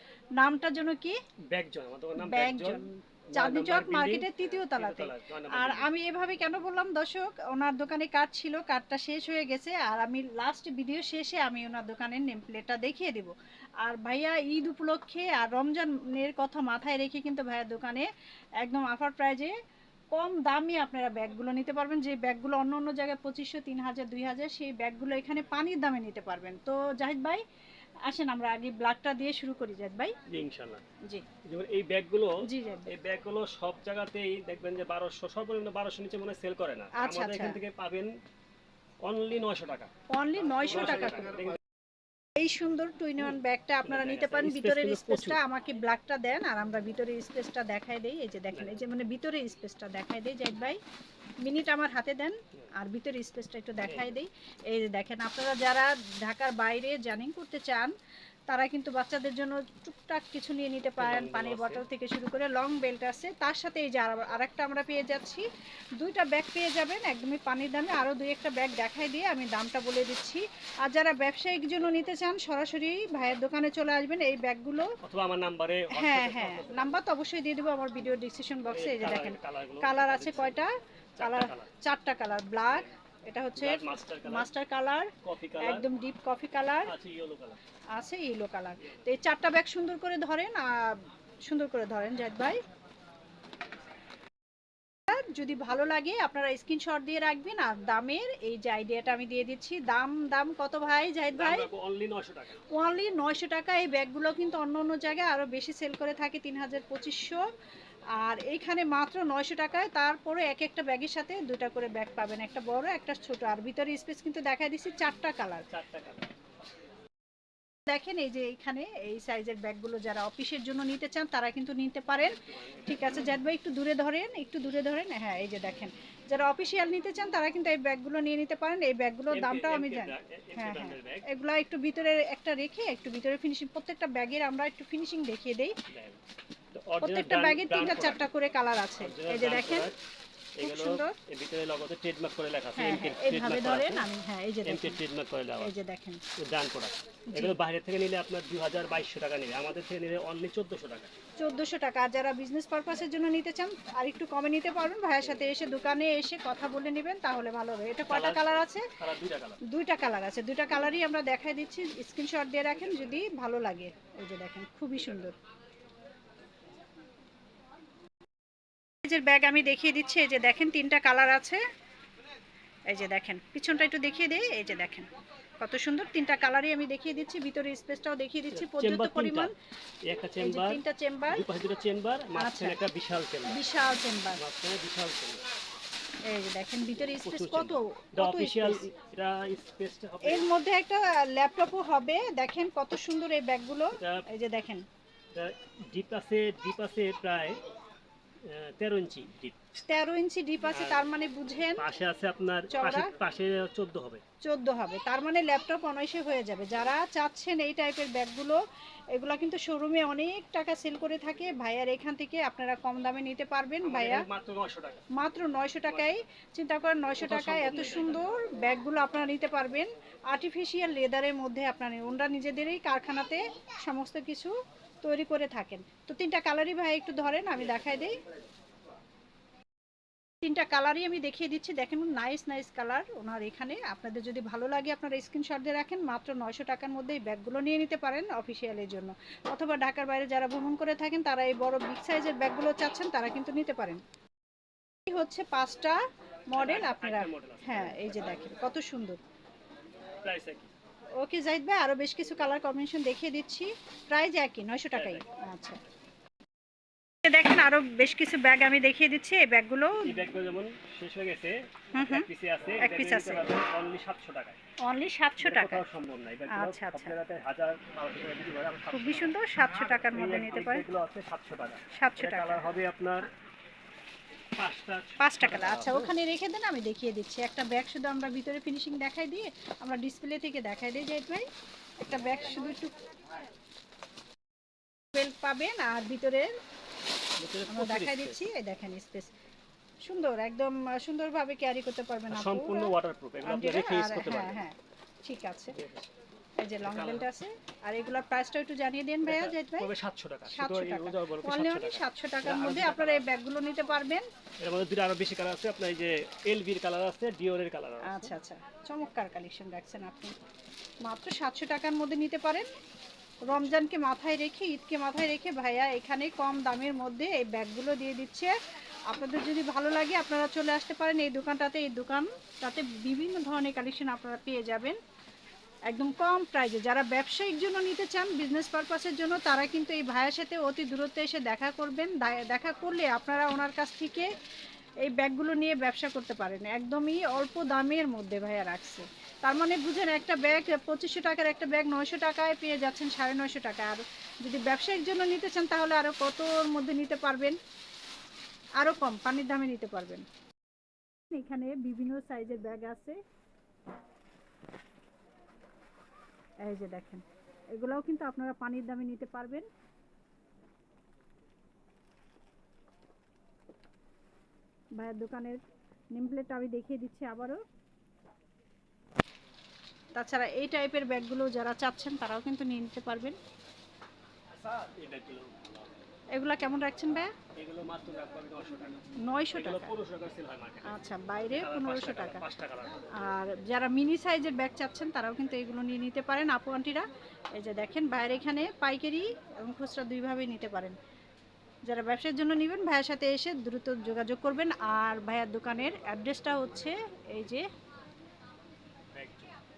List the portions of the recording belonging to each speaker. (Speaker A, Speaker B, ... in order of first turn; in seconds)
Speaker A: 0.4-1.2, 2.2-13.3, 13.8-18.1, 18.6-19.5, 20.1-27.4, 28.1-30.1, 32.4-32.9, 36.9-37.6, 40.1-41.4, 42.4-50.8, 51.4-57.9, 58.5-65.5, 66.0-74.9, 75.9-86.9, 87.9-92.6, 95.1-101.7, 102.7-107.4, 108.2-115.7, 117.9-135.8, 137.0-139.9, 140.6-141.2, 142.8-145.0, 145.6-146.2, 147.3-147.5, 151.4-158.9, 159.6-165.4, 169.0-171.6, 172.9-175.1, 175.6-179.5, 180.4-181.4, 182.4-182.8, 183.4-184.4, 186.2-188.9, 190.2-194.8, 199.9-201.9, 202.7-203.1, 204.4-208.6, 209.1-214.3, 215.1-228.2, 230.4-244.0, 245.1-249.2, 251.2-255.8, 257.2-260.2, 261.9-262.3, 262.8-263.6, 264.8-265.8, 266.5-267.1, 268.9-270.8, 271.9-272.6, 275.2-281.4, 282.0-282.9, 285.1-286.5, 287.7-289.3, 290.0-295.8, 296.6-299.9, 300.4-304.2, 308.1-310.3, 311.0-312.7, 313.4-318.5, 319.1-325.0, 325.9-334.3, 335.0-347.6, 348.8-350.2, 351.3-353.2, 356.6-359.7, 365.0-365.6, 366.1-367.6, 370.1-373.4, 376.3-377.3, 379.2-379.9, 380.8-382.4, 383.1-390.9, 391.9-397.6
Speaker B: 1.5-5.9, 30.3-30.8, 31.4-38.1, 39.0-39.9, 40.6-41.6, 43.2-45.4, 48.5-48.8, 53.8-54.1, 61.0-61.8, 75.0-77.0, 78.7-80.6, 81.2-81.7, 83.5-84.5, 85.2-85.8, 86.8-87.6, 101.3-102.6, 115.7-116.3, 122.4-123.4, 129.3-131.2, 135.9-136.2, 136.7-138.3, 139.0-140.0, 140.6-144.1, 144.6-145.7, 146.4-151.1, 158.1-159.6, 178.5-179.5, 180.1-183.6, 184.3-185.4, 186.8-190.4, 194.0-194.2, 195.3-197.6, 198.4-199.6, 200.7-201.1, 201.8-204.2, 213.8-215.1, 217.2-218.3, 246.5-248.5, 250.2-250.7, 254.9-255.2, 260.0-264.6, 265.4-273.3, 274.6-276.1, 287.4-288.4, 292.3-294.6, 295.7-296.1, 296.8-297.3, 299.2-303.3, 304.6-308.3, 374.5-375.8, 377.5-379.0, 379.5-383.1, 399.1-399.5